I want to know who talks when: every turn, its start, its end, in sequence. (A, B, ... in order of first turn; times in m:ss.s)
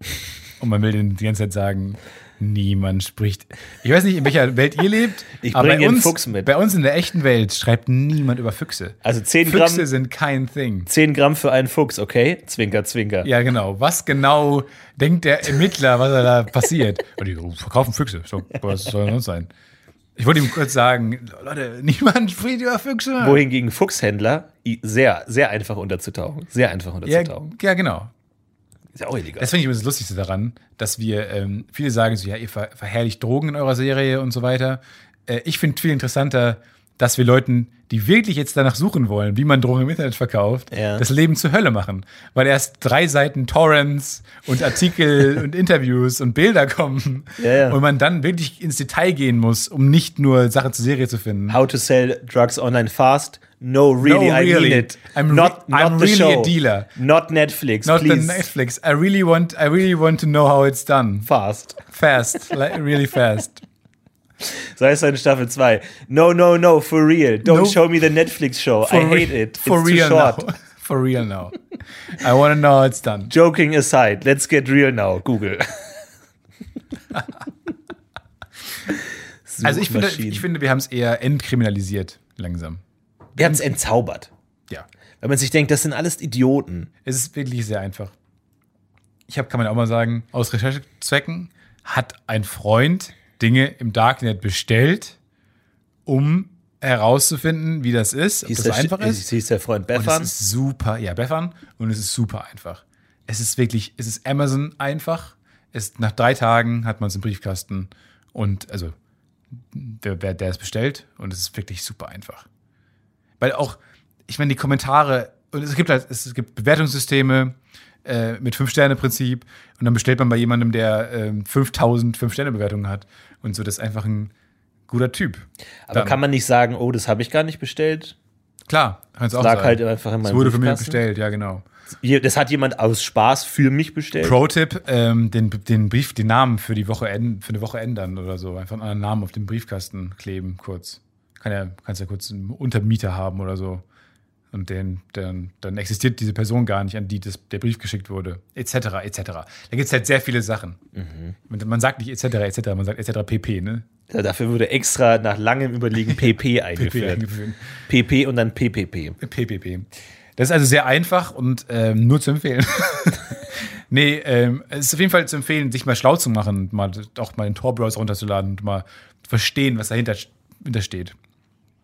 0:00.6-0:10.9 A
0:05.4-0:06.5 B
0:09.0-0:09.9 B
0:10.9-0:13.3 B
0:13.2-0:19.5 A
0:20.2-0:23.4 A
0:23.2-0:27.5 B
0:27.0-0:28.1 A
0:29.0-0:29.5 B
0:29.4-0:51.6 A
0:40.7-0:41.0 B
0:47.4-0:47.8 B
0:51.5-0:58.5 B
0:54.0-0:56.9 A
0:57.8-1:01.3 A
1:01.2-1:01.8 B
1:01.8-1:03.6 A
1:04.4-1:10.5 B
1:07.4-1:07.8 A
1:08.8-1:11.6 A
1:12.1-1:13.3 A
1:13.3-1:16.0 B
1:19.5-1:20.5 B
1:19.6-1:22.8 A
1:23.4-1:23.7 A
1:23.4-1:24.3 B
1:25.2-1:26.9 B
1:27.0-1:28.1 A
1:29.3-1:35.2 A
1:36.1-1:39.2 A
1:38.5-1:40.3 B
1:39.9-1:48.9 A
1:49.7-1:52.5 A
1:53.4-2:04.3 A
2:04.9-2:06.2 A
2:05.9-2:08.2 B
2:08.7-2:11.6 A
2:09.4-2:11.0 B
2:12.0-2:14.4 B
2:14.2-2:23.8 A
2:24.5-2:30.8 A
2:30.9-2:31.4 B
2:31.5-2:33.9 A
2:34.1-2:37.2 B
2:36.2-2:37.7 A
2:37.9-2:39.2 B
2:39.2-2:51.2 A